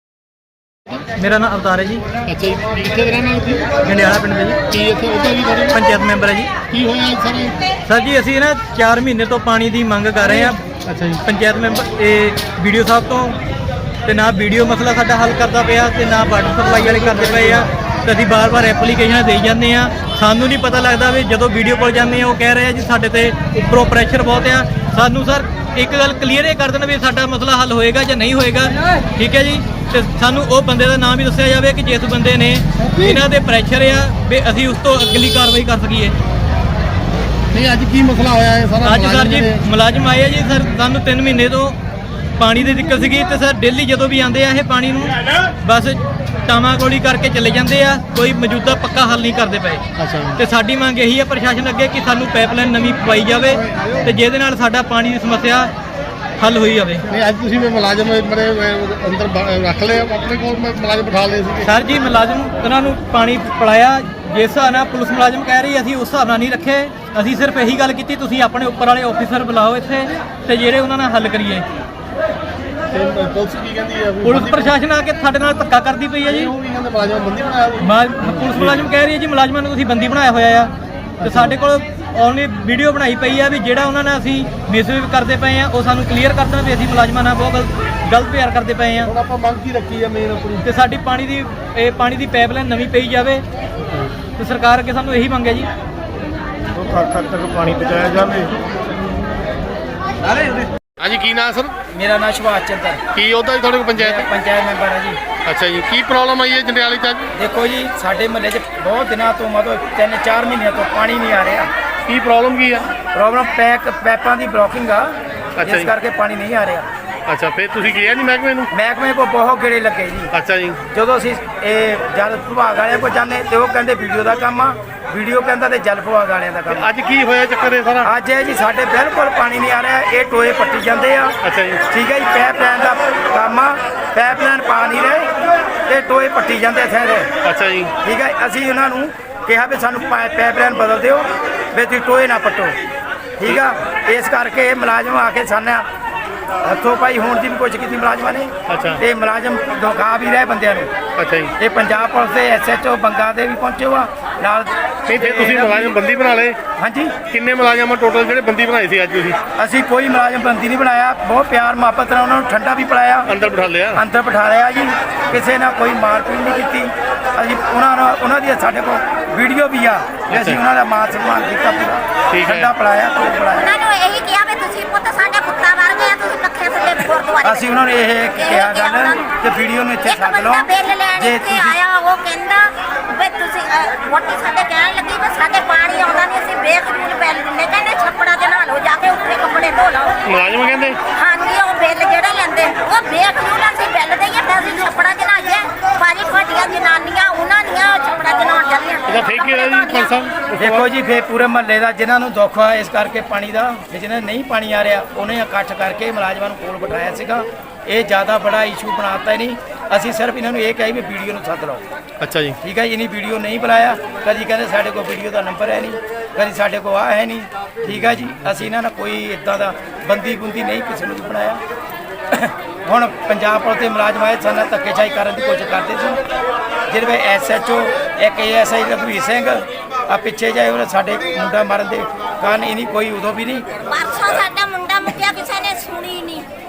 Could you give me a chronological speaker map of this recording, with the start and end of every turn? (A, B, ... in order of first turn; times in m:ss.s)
0:01.2-0:02.0 A
0:02.3-0:03.7 B
0:03.8-0:04.6 A
0:04.7-0:05.8 B
0:05.7-0:06.5 A
0:06.7-0:07.6 B
0:07.8-0:10.6 A
0:10.8-0:11.2 B
0:11.2-0:13.4 A
0:14.0-0:36.1 A
0:37.6-0:39.6 B
0:38.8-0:41.8 A
0:42.4-0:49.8 A
0:50.0-0:50.4 B
0:50.4-0:55.7 A
0:56.4-0:57.0 A
0:57.2-1:01.6 B
1:01.6-1:11.6 A
1:12.9-1:14.8 B
1:14.2-1:16.5 A
1:16.2-1:18.9 B
1:17.8-1:29.1 A
1:21.2-1:21.6 B
1:29.1-1:30.6 B
1:30.6-1:33.4 A
1:34.4-1:35.7 A
1:36.7-1:38.8 B
1:41.0-1:41.8 B
1:41.9-1:43.0 C
1:43.1-1:44.2 B
1:44.0-1:45.2 C
1:45.4-1:47.3 B
1:47.3-1:51.7 C
1:52.1-1:52.9 B
1:53.1-1:56.9 C
1:55.6-1:55.9 B
1:57.3-1:58.7 B
1:58.7-2:00.3 C
2:00.3-2:00.8 B
2:00.9-2:06.9 C
2:06.7-2:08.1 B
2:08.0-2:11.4 C
2:11.4-2:11.8 B
2:11.9-2:15.3 C
2:15.9-2:17.3 C
2:17.4-2:17.9 B
2:18.0-2:22.7 C
2:23.4-2:25.8 C
2:26.6-2:30.9 C
2:28.7-2:29.0 B
2:31.2-2:31.5 B
2:31.6-2:36.0 C
2:35.1-2:36.6 B
2:36.8-2:37.2 C
2:37.2-2:39.4 B
2:39.6-2:43.3 C
2:43.3-2:44.0 B
2:43.9-2:53.7 C
2:50.3-2:50.6 B
2:52.3-2:52.7 B
2:53.6-2:57.5 D
2:57.4-3:01.8 C
2:58.4-2:59.2 D
3:00.1-3:02.6 D
3:03.1-3:08.0 D
3:08.6-3:09.9 D
3:10.2-3:11.0 B
3:11.3-3:20.1 D
3:19.1-3:20.8 B
3:20.6-3:31.8 C
3:32.2-3:32.6 B
3:32.6-3:41.6 C
3:42.3-3:46.2 C
3:46.9-3:53.7 C